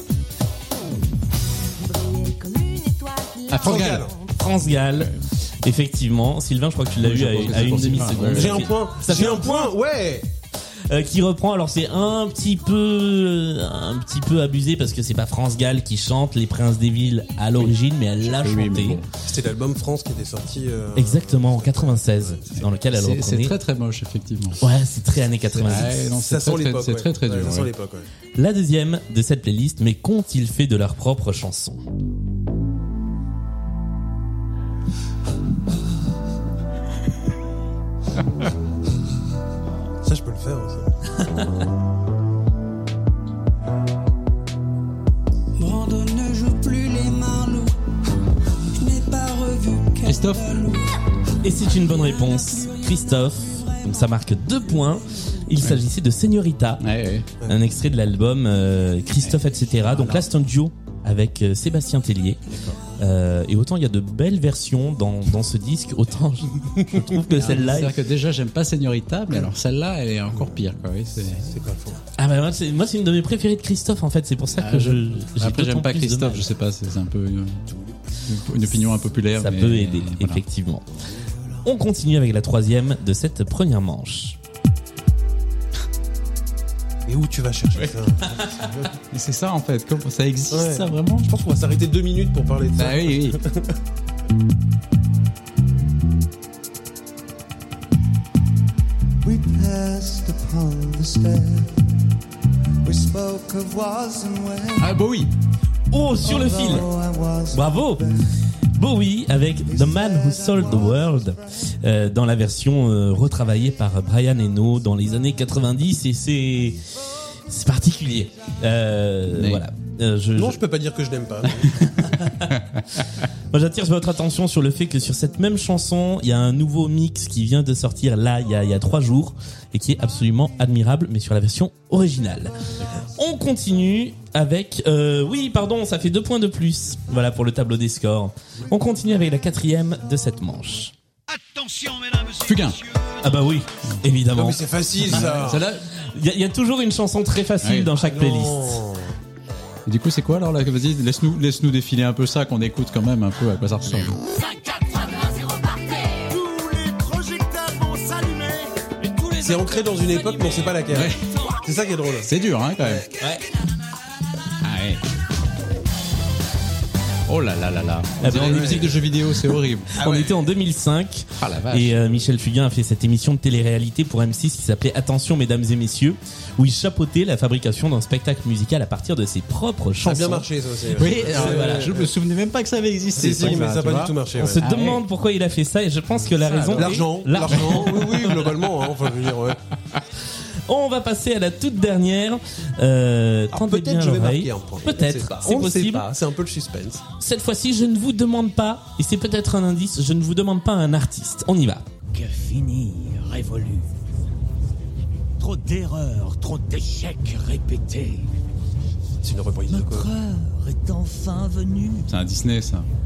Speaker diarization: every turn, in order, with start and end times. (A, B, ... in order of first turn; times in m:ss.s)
0:01.9-0:03.7 A
0:03.5-0:04.1 B
0:03.6-0:04.1 C
0:04.3-0:09.8 D
0:04.9-0:05.2 B
0:07.0-0:08.7 B
0:08.2-0:10.3 C
0:10.9-0:19.0 D
0:18.3-0:19.1 B
0:19.2-0:22.7 C
0:21.0-0:23.6 D
0:22.6-0:24.6 B
0:24.6-0:26.1 D
0:25.6-0:27.7 B
0:25.6-0:28.1 C
0:28.4-0:31.8 D
0:40.0-0:40.9 C
0:41.2-0:41.5 D
0:45.6-0:47.7 E
0:48.8-0:50.1 E
0:50.0-0:50.6 B
0:51.4-0:56.8 D
0:56.8-0:57.3 B
0:57.4-1:08.0 D
0:59.2-1:00.3 B
1:02.5-1:02.8 B
1:06.8-1:07.1 C
1:07.3-1:11.4 B
1:10.3-1:10.6 C
1:11.4-1:12.0 C
1:12.2-1:16.5 D
1:14.6-1:17.7 B
1:18.2-1:20.4 B
1:19.4-1:20.9 D
1:21.6-1:24.4 D
1:27.1-1:28.9 C
1:29.0-1:31.3 B
1:30.5-1:33.8 C
1:32.8-1:33.4 B
1:39.2-1:42.0 A
1:42.8-1:45.0 A
1:44.8-1:45.3 B
1:45.9-1:46.9 D
1:46.2-1:48.2 A
1:47.5-1:48.1 D
1:48.7-1:56.8 D
1:49.6-1:51.4 A
1:57.5-2:00.6 D
1:59.3-1:59.6 B
2:00.4-2:01.8 C
2:01.9-2:02.6 D
2:03.5-2:20.9 D
2:21.4-2:22.5 E
2:22.4-2:22.8 B
2:23.2-2:25.1 D
2:24.3-2:25.7 C
2:25.0-2:25.8 B
2:26.0-2:28.8 D
2:27.6-2:27.9 B
2:28.0-2:29.2 C
2:29.9-2:34.2 B
2:34.4-2:35.2 E
2:36.1-2:39.5 E
2:39.4-2:42.3 C
2:40.9-2:41.3 B
2:42.2-2:43.1 B
2:43.2-2:43.4 D
2:44.6-2:45.0 B
2:47.3-2:49.9 B
2:48.2-2:49.0 D
2:48.2-2:49.1 C
2:49.9-2:50.5 C
2:49.9-3:00.5 D
2:51.4-2:52.2 B
3:00.0-3:02.1 C
3:00.9-3:05.0 B
3:01.1-3:01.9 D
3:03.1-3:04.6 C
3:04.4-3:08.2 D
3:06.2-3:09.6 C
3:06.5-3:06.9 B
3:07.5-3:08.3 B
3:10.7-3:16.1 D
3:13.5-3:17.0 C
3:17.2-3:21.9 D
3:22.1-3:23.9 F
3:25.4-3:28.3 F
3:29.2-3:30.1 C
3:29.7-3:32.1 F
3:32.1-3:32.9 B